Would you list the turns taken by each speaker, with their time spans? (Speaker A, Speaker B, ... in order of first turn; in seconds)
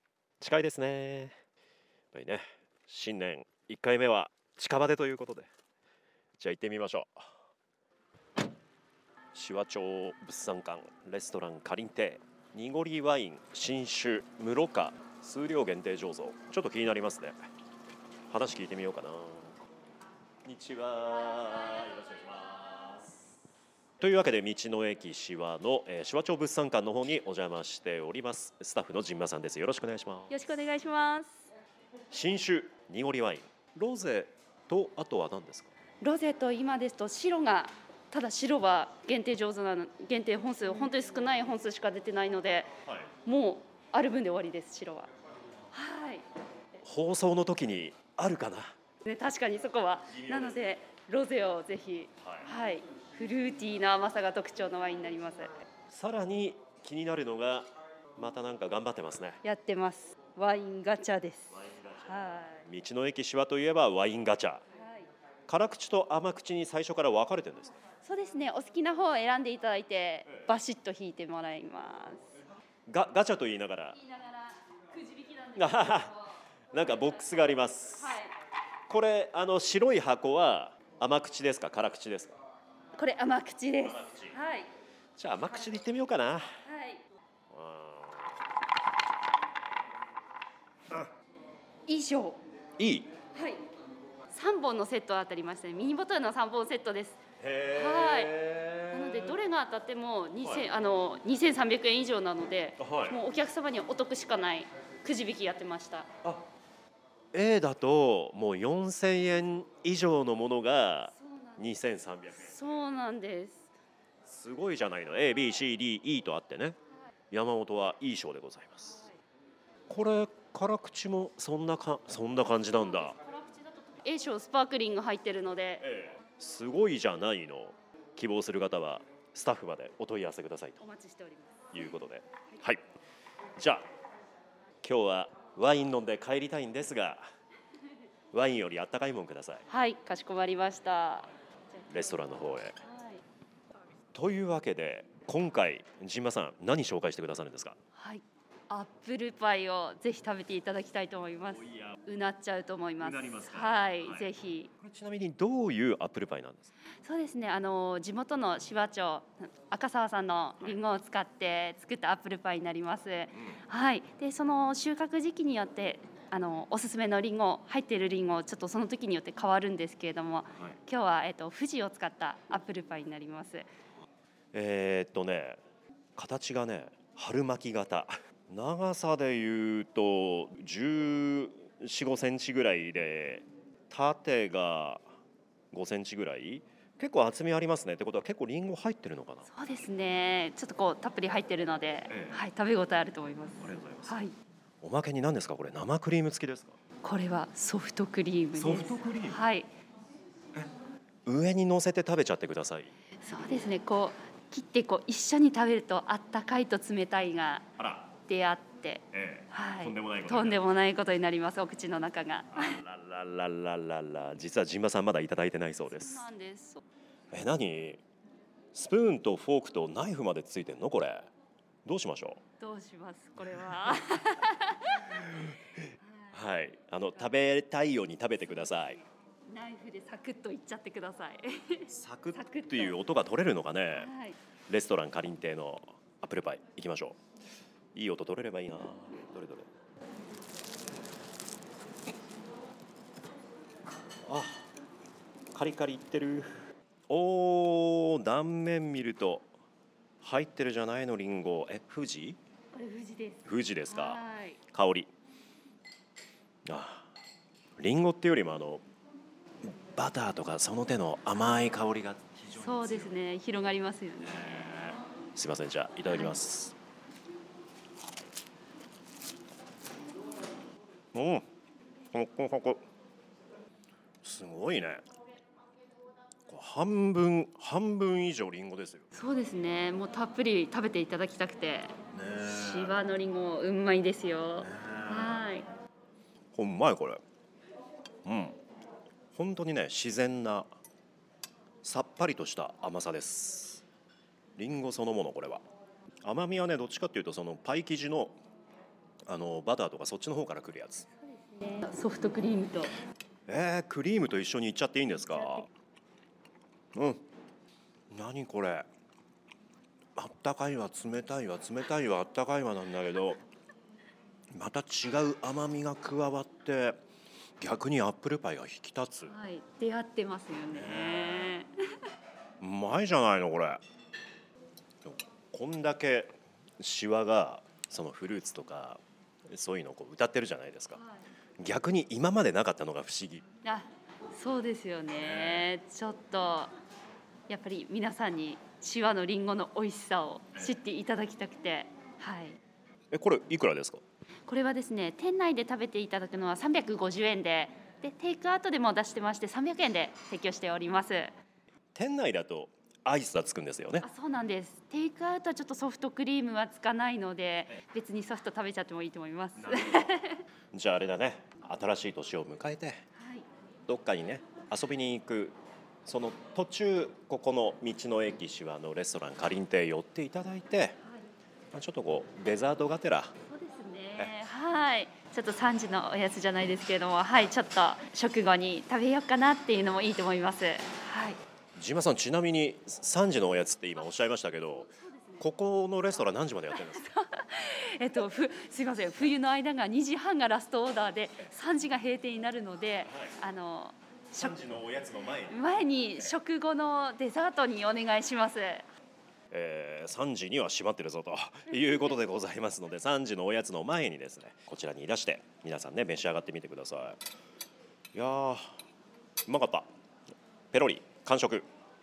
Speaker A: 0.4-1.4, 2.1-5.5, 6.4-7.3, 9.3-17.4, 18.3-19.6, 20.4-23.2, 24.0-30.4, 32.1-35.7, 42.9-43.1, 46.8-48.7, 50.1-50.6, 52.2-52.5, 55.9-59.4, 61.5-64.6, 65.5-67.8, 72.9-74.0, 75.6-76.2, 76.7-78.2, 78.9-82.3, 83.8-84.3, 85.2-86.5, 87.5-88.4, 92.8-93.1, 97.4-99.4, 102.8-103.2, 107.3-112.7, 114.2-116.8, 117.3-119.1, 119.9-123.2, 125.8-130.8, 131.7-132.8, 133.6-133.9, 134.8-137.2, 138.3-139.7, 141.9-142.8, 144.1-147.8, 151.6-152.0, 153.0-154.3, 154.8-156.7, 174.5-175.6, 176.2-185.0, 185.7-189.5, 192.1-192.4, 193.6-194.2, 194.8-196.8, 198.6-199.4, 201.3-202.9, 207.8-208.1, 209.1-210.6, 212.5-216.3, 217.3-218.0, 218.7-221.3, 221.8-222.4, 225.2-229.0, 231.9-234.1, 234.7-237.2, 237.9-239.7, 244.3-244.7, 245.5-246.5, 247.1-249.5, 250.2-252.4, 253.4-255.1, 256.7-257.1, 257.8-258.8, 259.6-263.2, 264.3-266.8, 271.1-271.5, 272.1-272.8, 274.2-275.0, 276.5-279.1, 282.1-283.0, 284.6-285.4, 286.5-287.2, 288.2-288.6, 289.3-290.7, 291.8-293.8, 294.6-295.6, 296.2-298.4, 299.3-301.1, 303.5-305.7, 306.9-307.2, 308.1-308.9, 310.2-313.4, 314.5-317.0, 317.6-319.3, 320.7-321.6, 322.6-323.8, 325.1-331.0, 331.6-333.4, 335.2-335.6, 343.1-344.0, 351.9-354.1, 359.6-360.2, 360.7-363.0, 363.9-371.0, 371.7-373.3, 381.8-387.1, 393.1-393.3, 394.4-395.6, 399.5-407.2, 408.1-408.8, 409.5-409.9, 410.7-411.7
Speaker B: 30.3-31.5, 36.0-42.7, 43.2-45.1, 45.7-46.3, 49.0-55.5, 59.4-62.7, 64.7-65.1, 68.0-72.3, 74.0-76.2, 78.0-78.3, 83.0-84.7, 86.7-87.0, 91.9-92.4, 93.3-93.7, 94.3-97.2, 97.7-98.4, 98.9-106.1, 111.1-111.7, 112.4-113.7, 122.7-125.9, 130.8-131.7, 139.7-142.1, 142.8-143.2, 147.9-154.7, 157.0-173.7, 189.5-194.3, 197.0-199.7, 203.2-207.7, 208.3-212.8, 215.9-216.8, 222.6-225.3, 226.0-226.4, 229.5-233.0, 234.0-234.4, 252.7-254.6, 262.6-264.9, 266.1-266.4, 279.1-285.7, 301.1-302.9, 305.3-305.7, 319.3-321.7, 330.9-331.2, 333.6-336.7, 337.5-342.6, 344.5-351.3, 354.0-360.4, 363.2-363.5, 373.5-381.4, 384.9-385.4, 386.7-394.6, 395.5-398.9